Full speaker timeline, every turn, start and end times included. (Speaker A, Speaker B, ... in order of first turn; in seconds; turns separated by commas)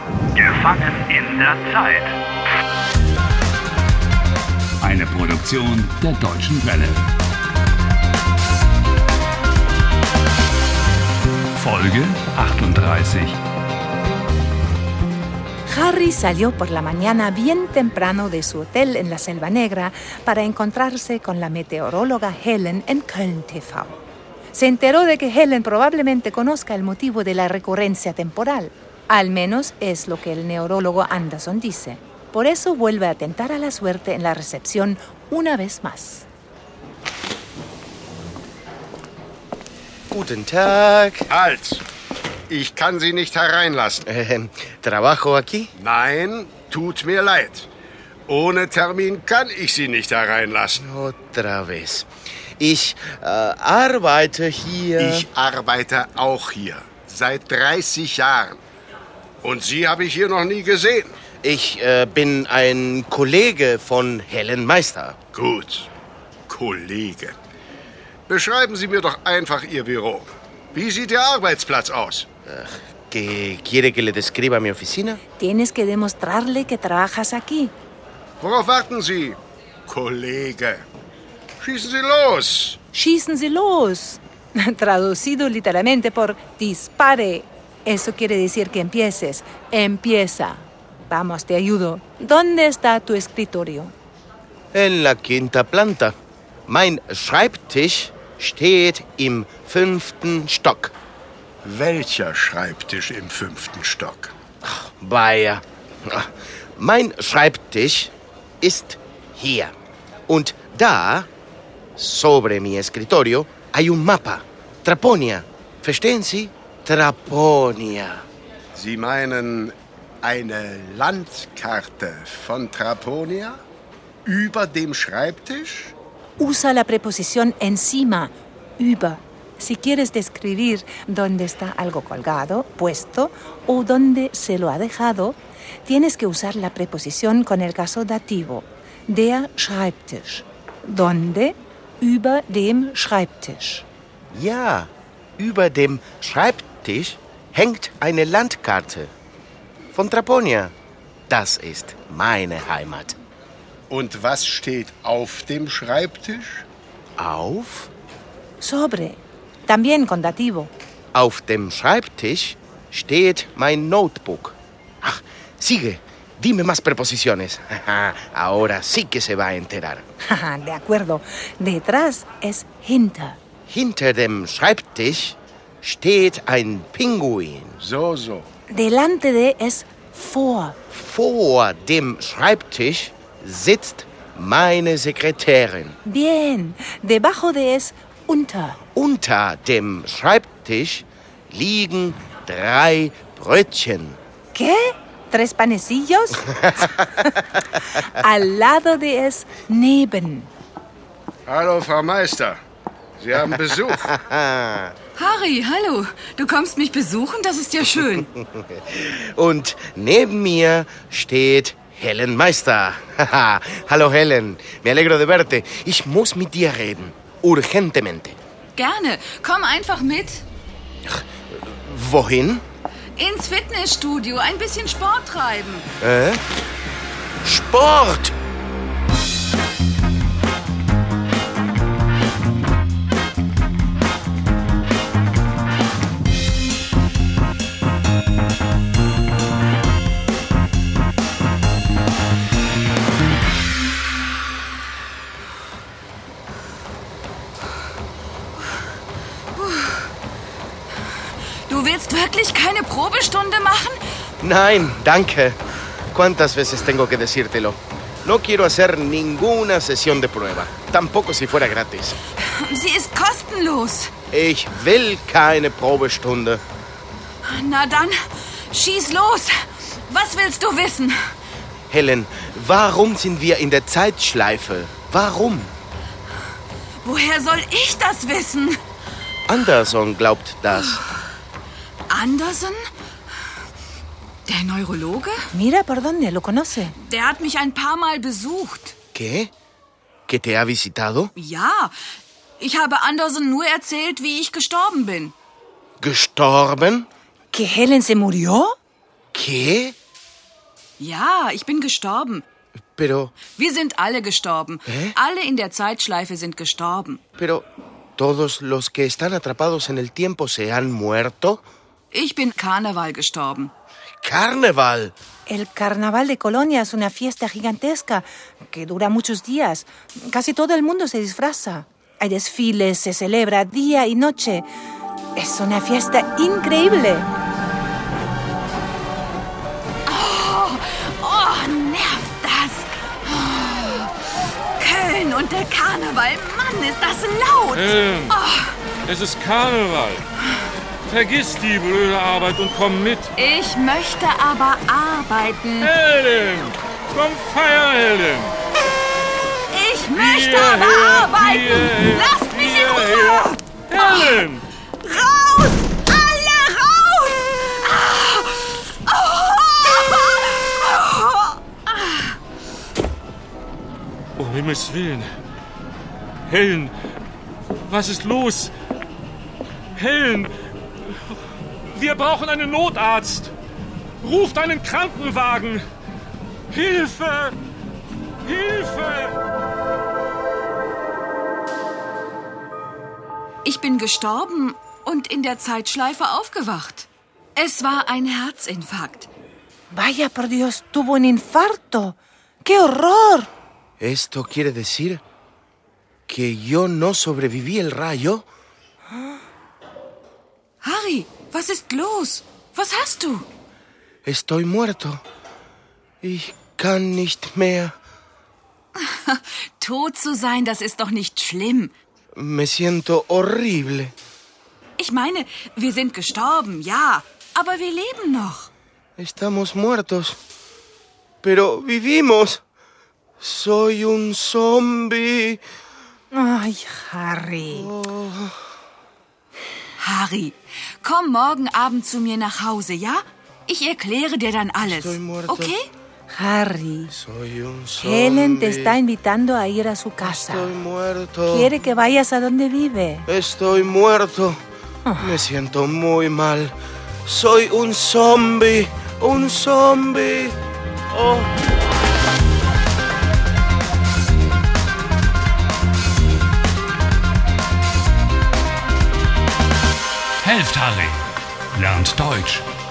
Speaker A: 0.3-2.1, Speaker A: 4.8-7.0, Speaker A: 11.6-13.4, Speaker B: 15.7-23.9, Speaker B: 24.5-36.3, Speaker C: 40.1-41.3, Speaker D: 41.3-41.8, Speaker D: 42.5-44.1, Speaker C: 44.1-45.7, Speaker D: 45.8-47.7, Speaker D: 48.3-50.8, Speaker C: 50.8-52.1, Speaker C: 52.6-55.2, Speaker D: 55.0-58.6, Speaker D: 59.4-61.2, Speaker C: 61.4-65.2, Speaker D: 65.3-65.9, Speaker D: 66.5-67.4, Speaker D: 68.3-72.3, Speaker C: 72.5-75.2, Speaker B: 75.4-77.7, Speaker D: 78.4-80.8, Speaker D: 81.6-82.8, Speaker B: 82.9-93.9, Speaker C: 94.7-96.2, Speaker C: 96.7-100.9, Speaker D: 101.6-104.3, Speaker C: 104.6-109.7, Speaker C: 110.3-111.3, Speaker C: 112.0-118.2, Speaker D: 118.8-123.6, Speaker D: 124.3-125.9, Speaker B: 126.4-143.8, Speaker C: 144.3-149.1, Speaker C: 149.9-150.7, Speaker C: 151.3-153.2, Speaker D: 153.9-156.7, Speaker C: 157.2-157.9, Speaker B: 158.6-160.7, Speaker C: 161.1-170.1, Speaker B: 170.2-173.4, Speaker C: 173.7-177.8, Speaker D: 177.8-178.5, Speaker B: 178.7-180.8, Speaker C: 180.9-186.0, Speaker B: 186.1-188.8, Speaker C: 188.9-194.2, Speaker B: 194.5-200.5, Speaker D: 201.5-202.6, Speaker D: 203.2-204.1, Speaker C: 203.9-204.9, Speaker E: 205.2-208.3, Speaker C: 208.4-218.4, Speaker E: 218.8-220.4, Speaker C: 221.1-222.6, Speaker E: 223.2-225.9, Speaker C: 226.0-226.4, Speaker C: 227.4-228.3, Speaker E: 249.6-250.0, Speaker E: 251.7-254.0, Speaker C: 254.4-255.6, Speaker C: 256.1-262.2, Speaker E: 262.4-264.1, Speaker C: 264.3-266.6, Speaker E: 267.4-269.6, Speaker E: 270.1-271.2, Speaker C: 271.9-275.7, Speaker E: 277.0-278.8, Speaker C: 279.5-281.0, Speaker E: 282.1-282.8, Speaker E: 284.5-285.4, Speaker B: 285.5-286.9, Speaker E: 286.9-288.9, Speaker C: 289.1-289.5, Speaker C: 290.3-291.3, Speaker E: 291.4-291.9, Speaker E: 292.6-295.3, Speaker C: 296.0-297.1, Speaker B: 297.5-298.8, Speaker C: 299.3-299.9, Speaker E: 301.0-302.4, Speaker C: 302.9-303.4, Speaker E: 303.5-307.2, Speaker C: 304.9-305.1, Speaker C: 307.4-307.7, Speaker C: 308.2-311.6, Speaker E: 312.1-313.7, Speaker C: 314.2-315.1, Speaker B: 315.5-324.7, Speaker B: 325.4-327.3, Speaker E: 330.1-334.1, Speaker E: 334.8-338.9, Speaker F: 337.8-338.4, Speaker F: 339.1-340.2, Speaker F: 341.1-343.3, Speaker E: 343.4-345.9, Speaker F: 345.8-348.6, Speaker E: 349.7-354.5, Speaker F: 350.1-354.6, Speaker E: 355.0-362.4, Speaker F: 364.4-365.3, Speaker F: 366.5-366.9, Speaker F: 367.8-368.7, Speaker F: 369.9-370.5, Speaker F: 371.0-373.5, Speaker F: 374.2-375.9, Speaker F: 376.7-377.6, Speaker F: 378.4-379.4, Speaker E: 383.6-389.3, Speaker B: 389.9-393.5, Speaker C: 394.0-395.2, Speaker C: 396.3-398.5, Speaker E: 400.8-403.5, Speaker C: 404.2-405.2, Speaker C: 406.2-407.9, Speaker E: 409.0-411.9, Speaker C: 412.4-414.1, Speaker E: 415.0-418.7, Speaker C: 419.2-420.4, Speaker C: 421.4-422.6, Speaker C: 423.4-425.6, Speaker B: 426.3-427.9, Speaker C: 427.7-428.6, Speaker E: 430.0-435.9, Speaker C: 434.8-435.7, Speaker B: 436.3-437.1, Speaker C: 437.1-439.0, Speaker B: 438.0-440.7, Speaker C: 440.2-441.7, Speaker B: 441.5-443.3, Speaker C: 443.3-444.6, Speaker B: 445.1-445.4, Speaker C: 445.2-450.6, Speaker C: 451.1-451.5, Speaker A: 460.4-461.2, Speaker A: 461.7-462.7